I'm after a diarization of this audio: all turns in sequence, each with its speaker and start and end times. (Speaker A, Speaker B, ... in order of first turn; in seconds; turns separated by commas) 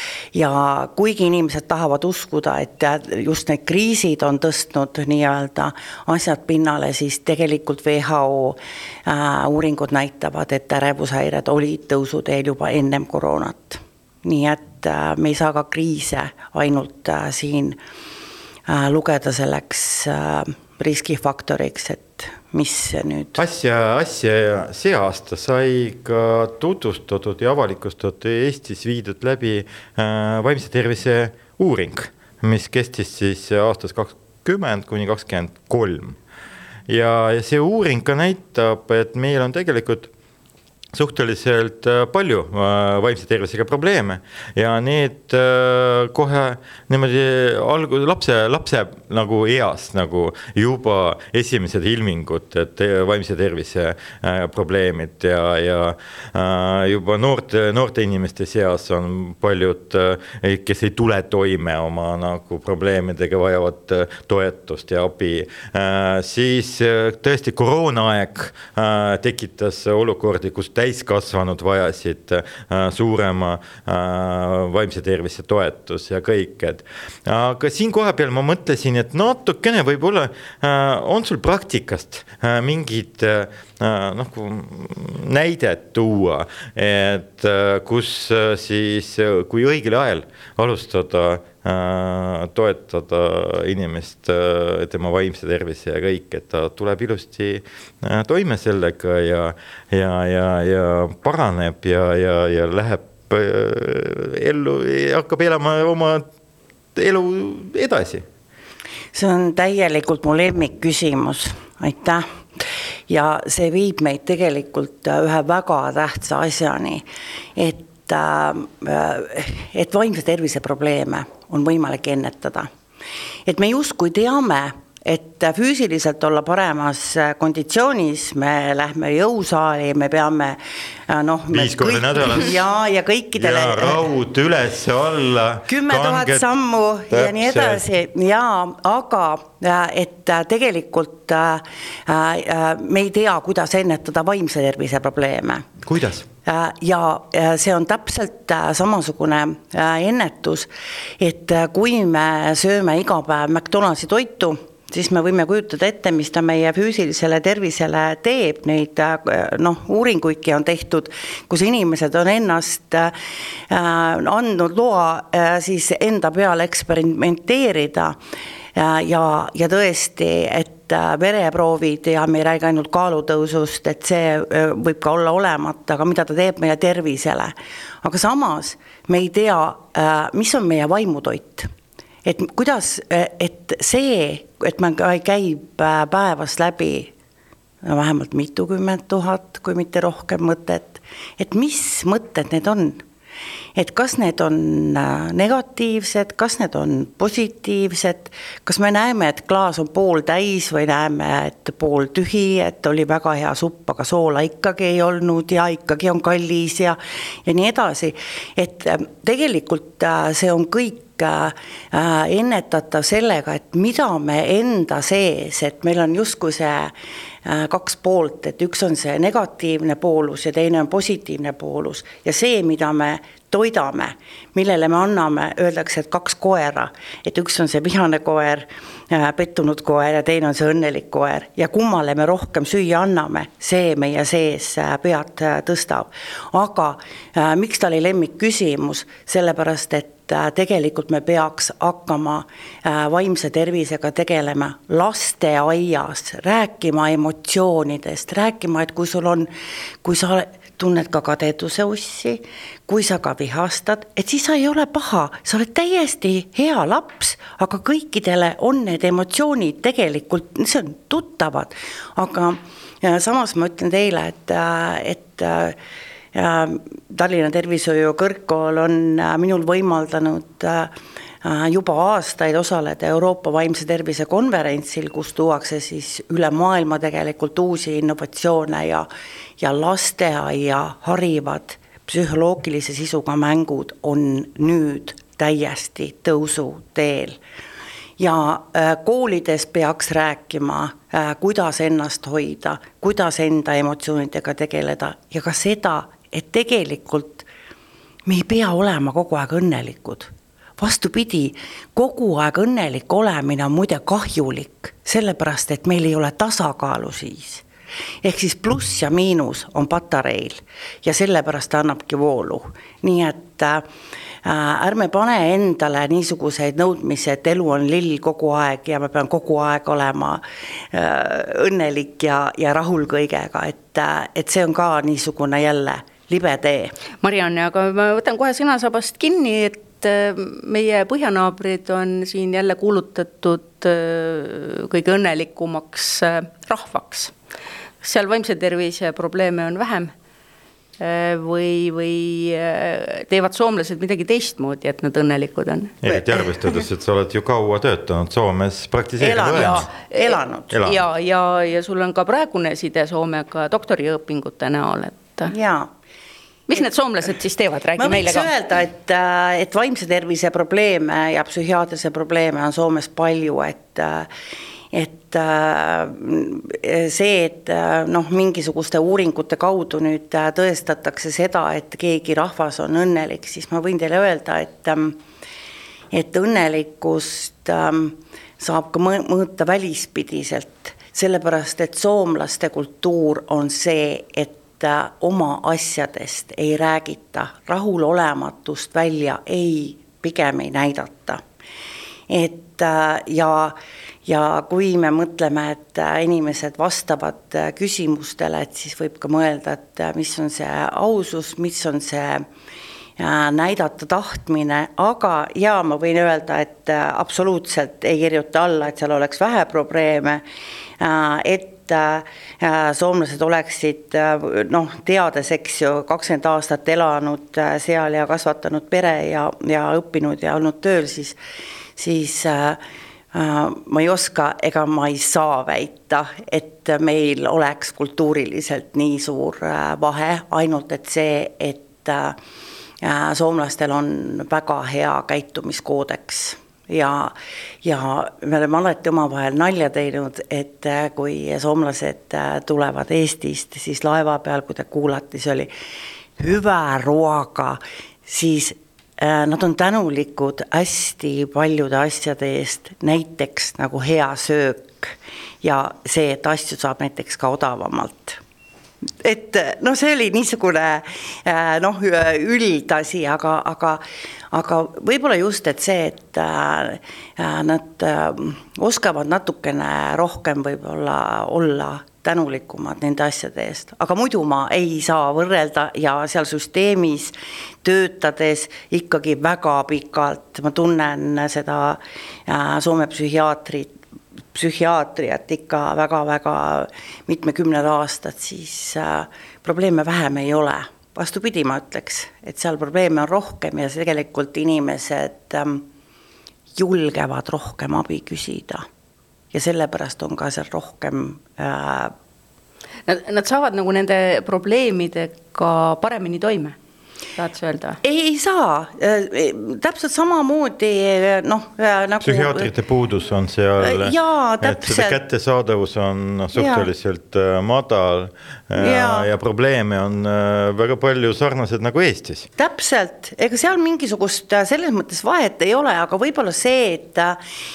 Speaker A: 0.3-17.8, Speaker A: 18.7-23.4, Speaker B: 23.4-36.2, Speaker B: 36.9-40.1, Speaker B: 40.9-106.3, Speaker B: 107.0-108.2, Speaker A: 109.1-117.0, Speaker A: 117.6-122.7, Speaker A: 123.5-130.6, Speaker A: 131.1-134.1, Speaker B: 131.5-132.6, Speaker B: 133.4-136.4, Speaker A: 135.7-145.7, Speaker B: 137.1-137.8, Speaker B: 145.8-146.3, Speaker A: 146.4-150.7, Speaker A: 151.2-163.1, Speaker A: 163.7-168.2, Speaker A: 168.8-181.7, Speaker A: 182.2-187.1, Speaker A: 187.8-193.0, Speaker A: 193.8-216.9, Speaker A: 217.4-249.5, Speaker A: 250.0-265.8, Speaker A: 266.3-270.9, Speaker A: 271.4-279.1, Speaker A: 279.6-287.4, Speaker A: 288.2-297.5, Speaker A: 298.3-307.6, Speaker A: 308.2-313.8, Speaker A: 314.4-326.9, Speaker C: 327.2-337.3, Speaker C: 338.0-340.1, Speaker C: 341.0-346.5, Speaker B: 346.0-349.9, Speaker A: 349.2-350.7, Speaker C: 350.1-355.5, Speaker B: 350.7-351.0, Speaker A: 355.5-355.9, Speaker C: 356.7-358.5, Speaker A: 358.0-364.3, Speaker A: 364.9-375.2, Speaker A: 376.1-391.4, Speaker A: 392.3-393.8, Speaker A: 394.3-402.5, Speaker A: 403.2-410.4, Speaker A: 411.0-421.4, Speaker A: 422.0-422.8, Speaker A: 423.3-432.4, Speaker A: 433.0-445.7, Speaker A: 446.4-458.4, Speaker A: 459.2-483.9, Speaker A: 484.5-495.9, Speaker A: 496.8-498.9, Speaker A: 499.5-502.1, Speaker C: 503.1-506.8, Speaker C: 507.4-508.0, Speaker A: 508.0-512.7, Speaker B: 512.2-522.5, Speaker A: 513.8-515.2, Speaker A: 516.5-516.9, Speaker A: 518.8-519.3, Speaker A: 522.6-527.4